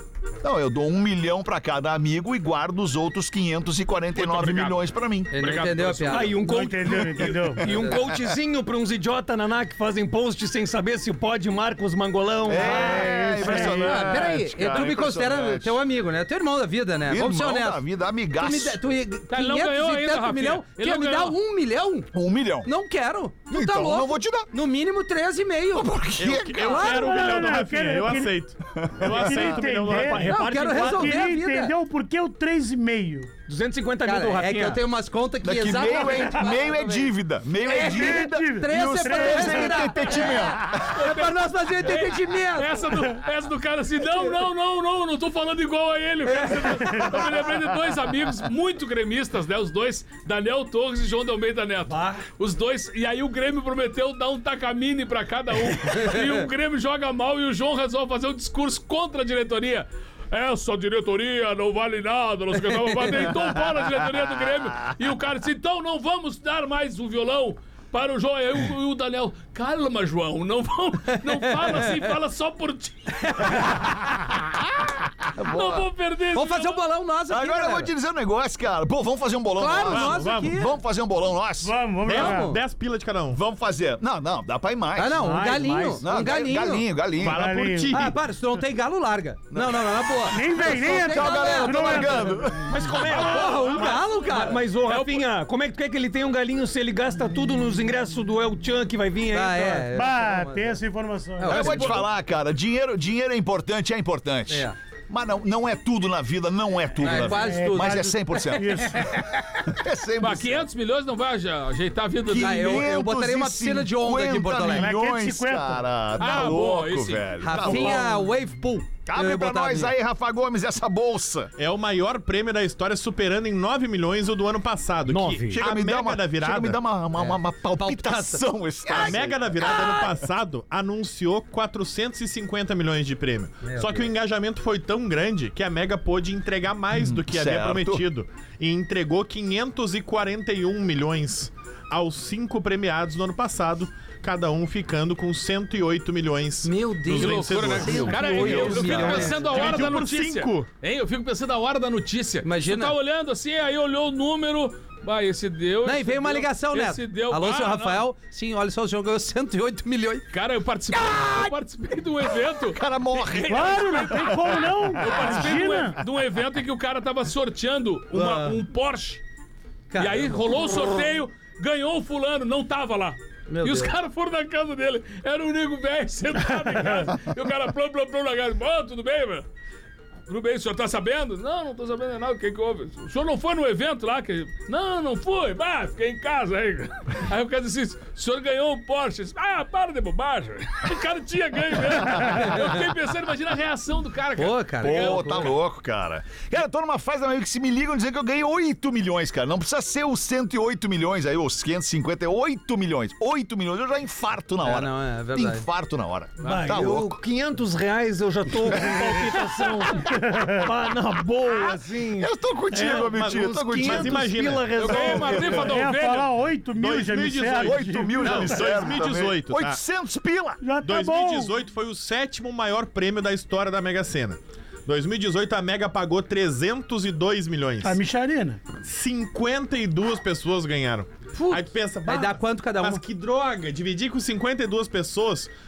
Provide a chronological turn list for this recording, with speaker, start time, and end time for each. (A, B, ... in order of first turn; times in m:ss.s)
0:00.4-0:05.3 A
0:04.1-0:06.3 B
0:05.3-0:06.3 C
0:06.0-0:13.8 D
0:06.4-0:07.8 E
0:07.7-0:07.9 C
0:12.4-0:15.8 A
0:12.6-0:14.0 E
0:13.5-0:17.8 C
0:17.1-0:18.8 A
0:18.4-0:22.1 C
0:19.3-0:21.4 B
0:22.1-0:22.7 A
0:22.6-0:25.9 C
0:23.5-0:24.5 A
0:25.7-0:27.0 A
0:26.2-0:30.3 F
0:26.5-0:27.5 C
0:26.8-0:28.4 E
0:28.7-0:29.5 A
0:29.0-0:33.3 E
0:29.8-0:31.3 D
0:30.2-0:31.7 C
0:33.5-0:34.8 D
0:34.0-0:42.9 C
0:35.4-0:41.0 A
0:36.0-0:36.4 E
0:37.7-0:40.0 E
0:40.9-1:14.3 B
0:46.4-0:46.7 C
0:46.8-0:47.2 E
0:51.9-0:52.2 D
1:11.3-1:12.1 C
1:13.4-1:13.7 C
1:15.4-1:15.8 A
1:15.4-1:16.8 B
1:16.3-1:17.9 C
1:17.3-1:21.8 A
1:19.6-1:20.7 C
1:19.8-1:20.5 F
1:21.6-1:22.6 E
1:22.0-1:23.4 F
1:22.1-1:22.6 C
1:23.3-1:25.4 A
1:25.0-1:26.9 C
1:25.1-1:26.2 D
1:26.0-1:27.5 A
1:27.2-1:28.2 F
1:27.2-1:28.1 E
1:27.9-1:32.3 C
1:29.5-1:33.1 A
1:30.3-1:32.8 E
1:32.7-1:39.9 D
1:33.0-1:34.6 C
1:33.1-1:34.1 F
1:34.8-1:35.2 B
1:39.3-1:40.8 C
1:39.9-1:42.0 E
1:41.4-1:42.0 C
1:41.4-1:49.0 A
1:44.5-1:44.8 C
1:47.0-1:49.3 C
1:47.1-1:49.2 E
1:49.7-1:50.6 A
1:50.2-1:52.8 B
1:52.2-1:58.1 A
1:52.4-1:54.9 C
1:54.6-1:55.8 E
1:56.2-1:57.2 B
1:57.4-1:59.9 C
1:57.6-1:58.2 E
1:59.0-2:01.5 A
2:01.6-2:06.8 F
2:05.0-2:05.6 D
2:05.5-2:09.8 A
2:07.2-2:10.0 C
2:08.9-2:30.7 F
2:13.6-2:14.1 C
2:16.9-2:18.0 A
2:26.6-2:29.9 C
2:27.2-2:38.0 B
2:28.3-2:29.4 D
2:32.4-2:32.9 C
2:35.8-2:40.3 C
2:40.3-2:49.2 B
2:41.0-2:41.4 C
2:42.7-2:45.7 A
2:43.5-2:46.0 E
2:48.1-2:48.6 C
2:49.9-2:50.6 C
2:50.0-2:59.4 B
2:53.5-2:53.9 C
3:00.3-3:15.5 B
3:12.3-3:12.7 C
3:14.4-3:15.5 C
3:14.8-3:27.2 A
3:24.6-3:25.6 C
3:26.4-3:35.7 D
3:26.4-3:26.7 B
3:28.7-3:29.1 A
3:30.0-3:30.7 E
3:31.5-3:34.4 A
3:33.0-3:35.5 F
3:34.8-3:36.3 B
3:35.0-3:35.8 A
3:35.1-3:38.9 E
3:36.7-3:39.8 F
3:37.6-3:40.6 A
3:40.6-3:41.6 E
3:40.8-3:48.0 F
3:47.8-3:48.6 E
3:48.8-3:55.5 F
3:51.3-3:53.0 C